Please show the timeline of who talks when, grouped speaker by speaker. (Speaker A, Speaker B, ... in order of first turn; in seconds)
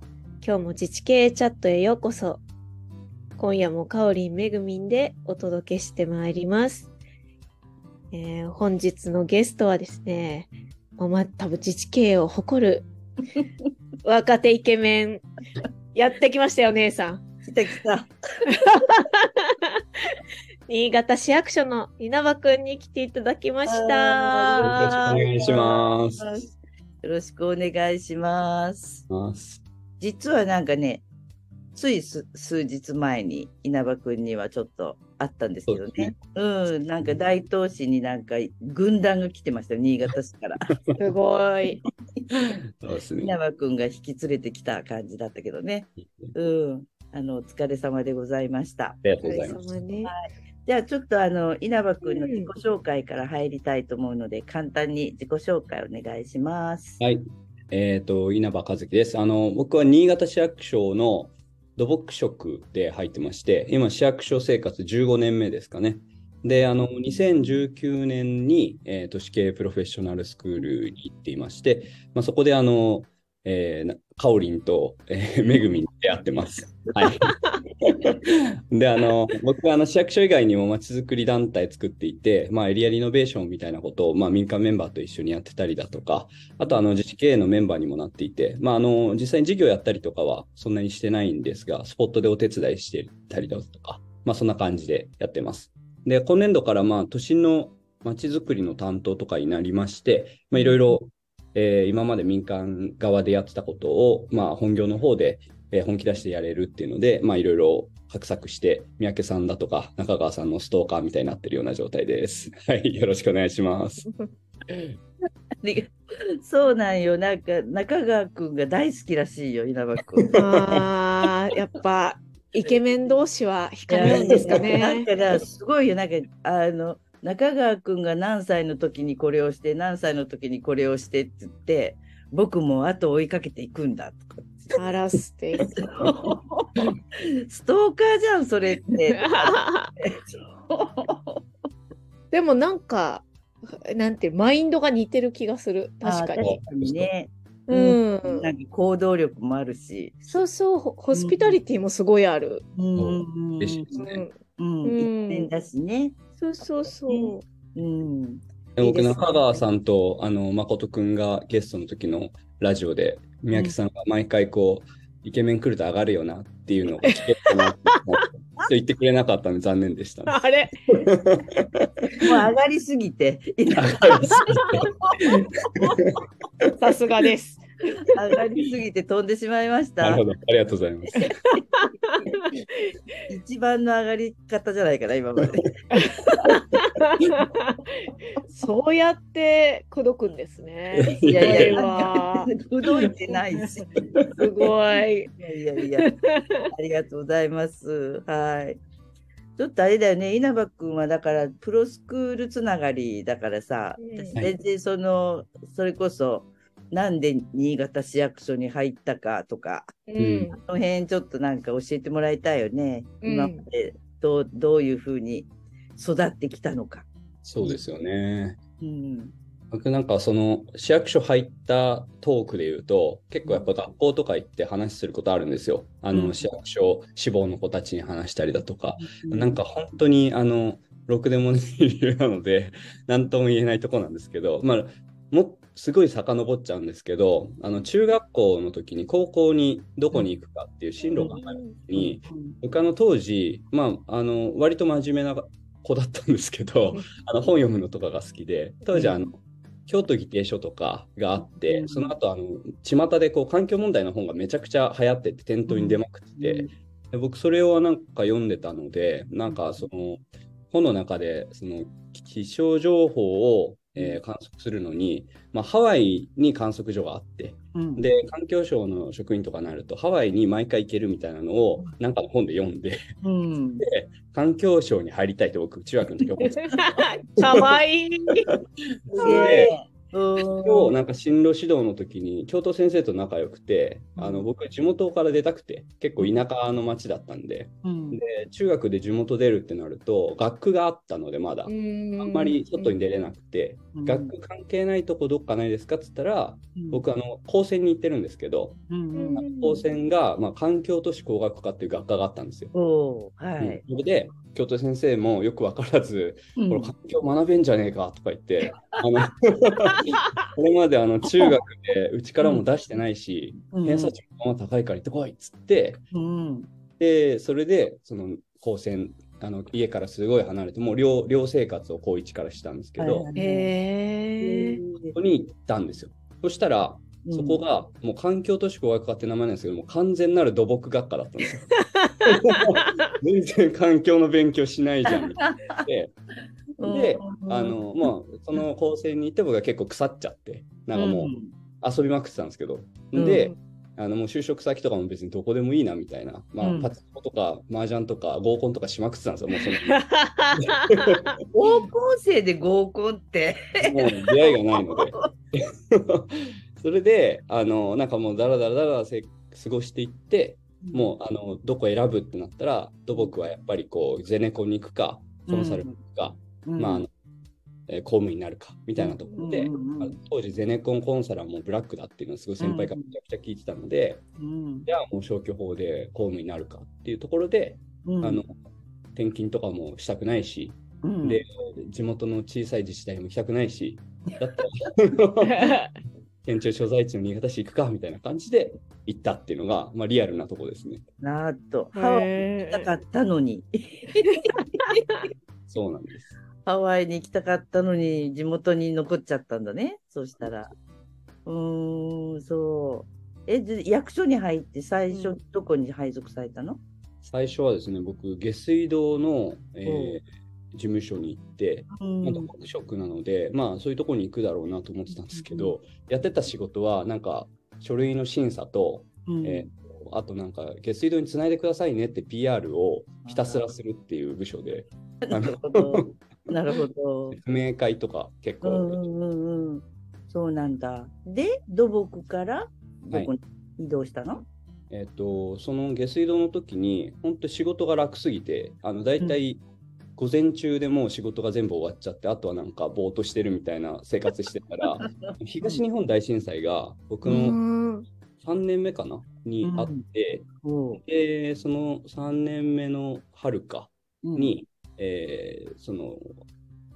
Speaker A: 0.4-2.4, 3.4-6.9, 8.1-12.9, 14.0-15.2, 15.9-17.2, 18.5-20.1, 20.7-25.2, 41.0-41.8, 49.2-50.1, 52.0-52.5, 120.3-125.1, 134.8-135.8, 139.1-139.9, 142.3-146.5, 147.7-148.5, 150.3-152.6, 153.9-155.5, 156.4-157.4, 167.1-168.0, 170.3-170.7, 174.4-174.8, 176.8-178.1, 181.7-182.5, 185.9-192.5, 194.3-195.3, 196.0-196.7, 204.0-204.4, 210.1-210.6, 213.2-213.6, 241.0-241.8, 276.7-278.5, 279.1-279.7, 291.7-292.9, 299.1-299.8, 323.4-324.8, 349.9-351.1, 385.4-385.9, 391.9-392.9, 447.3-448.1
Speaker B: 17.4-18.1, 23.7-26.5, 27.0-29.1, 30.0-31.1, 31.7-40.7, 43.2-49.0, 50.0-57.0, 115.6-120.8, 123.9-134.8, 135.8-141.4, 146.0-150.3, 151.1-151.6, 152.7-154.0, 154.6-156.1, 157.1-159.6, 172.2-175.3, 178.1-180.2, 183.3-185.8, 191.2-193.9, 195.3-196.1, 196.7-198.8, 199.6-209.9, 210.6-217.1, 218.8-219.3, 226.1-226.4, 229.0-229.6, 241.9-242.6, 248.9-249.2, 251.4-252.1, 255.7-256.7, 259.5-259.8, 267.7-268.1, 273.2-273.9, 279.2-280.9, 284.1-284.5, 287.8-288.2, 293.9-294.3, 296.8-297.0, 298.9-299.4, 302.7-303.8, 306.6-306.9, 308.7-309.0, 313.7-314.1, 316.1-316.7, 323.0-323.7, 324.4-325.1, 327.2-327.6, 335.1-335.8, 336.8-337.8, 340.9-341.5, 343.1-343.5, 346.6-346.9, 351.5-354.2, 354.8-355.3, 360.8-361.1, 365.5-366.0, 366.6-367.1, 369.0-370.2, 372.6-373.1, 374.4-374.9, 378.0-378.4, 381.0-381.4, 391.2-395.3, 396.6-400.7, 401.4-406.8, 409.8-410.2, 411.9-412.5, 415.3-415.8, 419.3-419.7, 423.2-423.6, 425.2-427.4, 428.6-434.4, 445.0-445.8, 449.6-450.0, 450.6-451.0, 454.2-454.6
Speaker C: 24.6-26.3, 29.1-29.6, 35.7-36.1, 42.3-43.4, 46.0-46.3, 49.0-49.6, 57.0-114.0, 114.7-114.9, 124.0-124.7, 146.4-147.1, 153.0-154.2, 158.8-172.1, 173.8-176.7, 180.0-181.3, 190.9-191.8, 210.2-210.5, 217.4-218.6, 219.7-273.0, 273.8-277.7, 279.1-279.7, 280.6-298.8, 299.4-302.7, 303.6-316.0, 317.0-323.2, 325.1-336.1, 336.8-351.3, 353.8-367.1, 367.9-374.2, 374.9-378.5, 379.1-385.7, 386.4-391.0, 395.7-396.3, 407.2-426.1, 427.3-429.0, 434.9-439.6, 440.2-447.6, 448.4-450.5, 451.0-456.4